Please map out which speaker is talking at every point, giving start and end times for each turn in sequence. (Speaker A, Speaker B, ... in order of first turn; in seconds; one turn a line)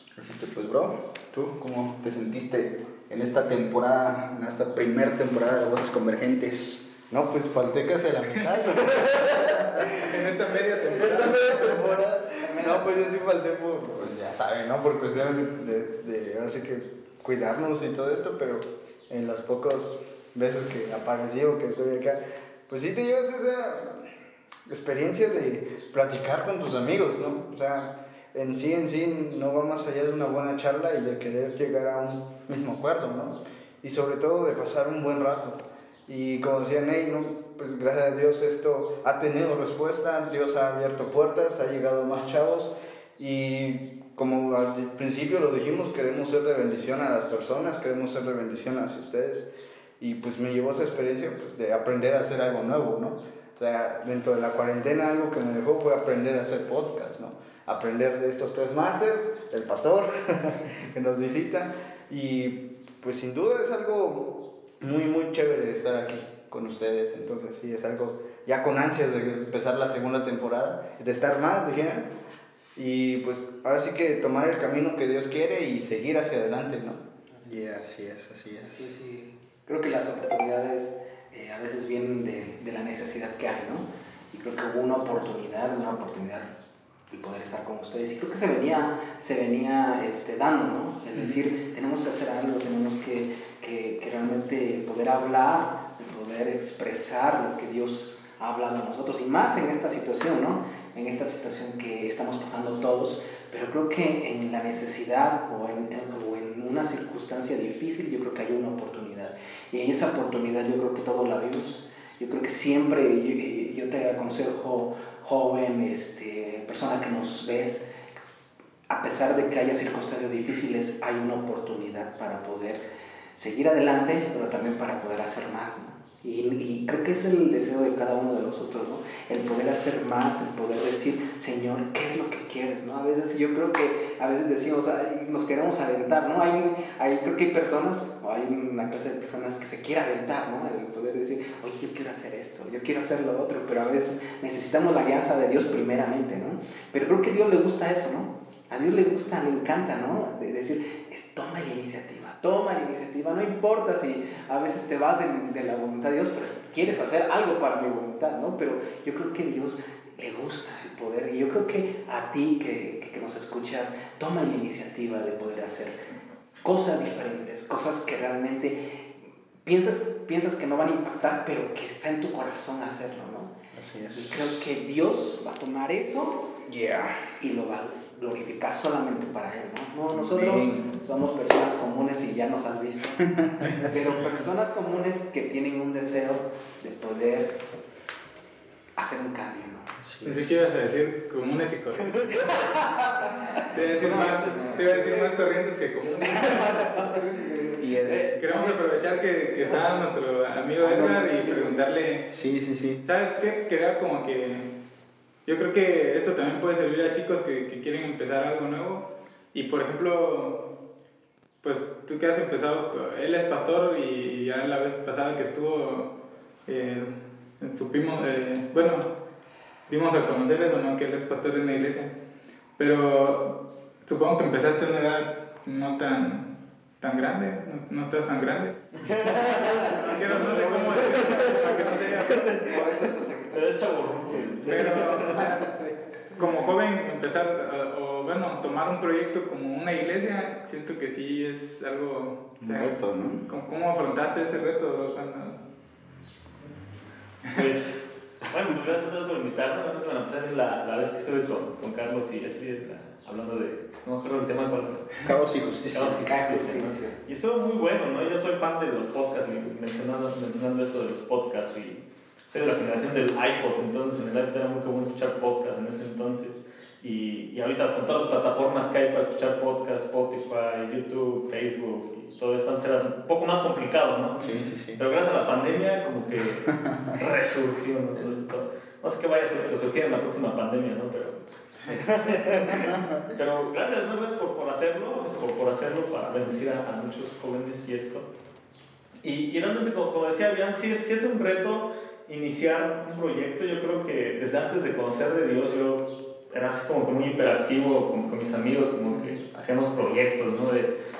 Speaker A: 0.1-7.0
Speaker B: 7.1-10.1
Speaker C: 8.8-9.0
Speaker C: 9.9-11.9
Speaker B: 10.9-24.1
Speaker D: 12.4-12.8
Speaker B: 24.7-72.1
Speaker B: 72.7-77.0
Speaker D: 77.4-77.6
Speaker A: 77.5-78.9
Speaker D: 78.7-86.5
Speaker D: 87.1-117.8
Speaker D: 118.9-122.8
Speaker D: 123.3-166.1
Speaker D: 166.6-168.8
Speaker D: 169.6-173.5
Speaker A: 173.7-174.8
Speaker D: 174.1-176.5
Speaker A: 176.6-177.3
Speaker D: 177.4-183.2
Speaker A: 180.1-180.9
Speaker A: 183.4-183.9
Speaker D: 183.7-187.6
Speaker D: 189.0-189.9
Speaker A: 190.0-190.6
Speaker C: 190.2-192.7
Speaker D: 192.4-195.4
Speaker C: 193.7-196.7
Speaker A: 194.1-194.8
Speaker D: 196.0-199.1
Speaker A: 197.8-198.3
Speaker C: 198.4-202.3
Speaker A: 200.8-201.2
Speaker D: 201.3-201.8
Speaker A: 202.3-203.0
Speaker C: 203.0-204.7
Speaker C: 205.4-210.6
Speaker C: 211.6-216.1
Speaker C: 216.7-219.1
Speaker C: 219.9-222.1
Speaker C: 222.8-228.8
Speaker E: 229.0-232.9
Speaker D: 229.6-235.9
Speaker C: 230.0-232.5
Speaker E: 233.5-235.3
Speaker C: 234.7-235.7
Speaker C: 236.3-245.6
Speaker A: 242.6-243.4
Speaker E: 247.5-255.2
Speaker A: 255.2-256.1
Speaker E: 255.9-274.4
Speaker D: 256.0-257.2
Speaker A: 274.4-275.0
Speaker C: 274.4-274.6
Speaker E: 275.0-288.3
Speaker A: 276.7-277.2
Speaker A: 282.5-283.3
Speaker E: 289.2-300.9
Speaker C: 299.1-299.3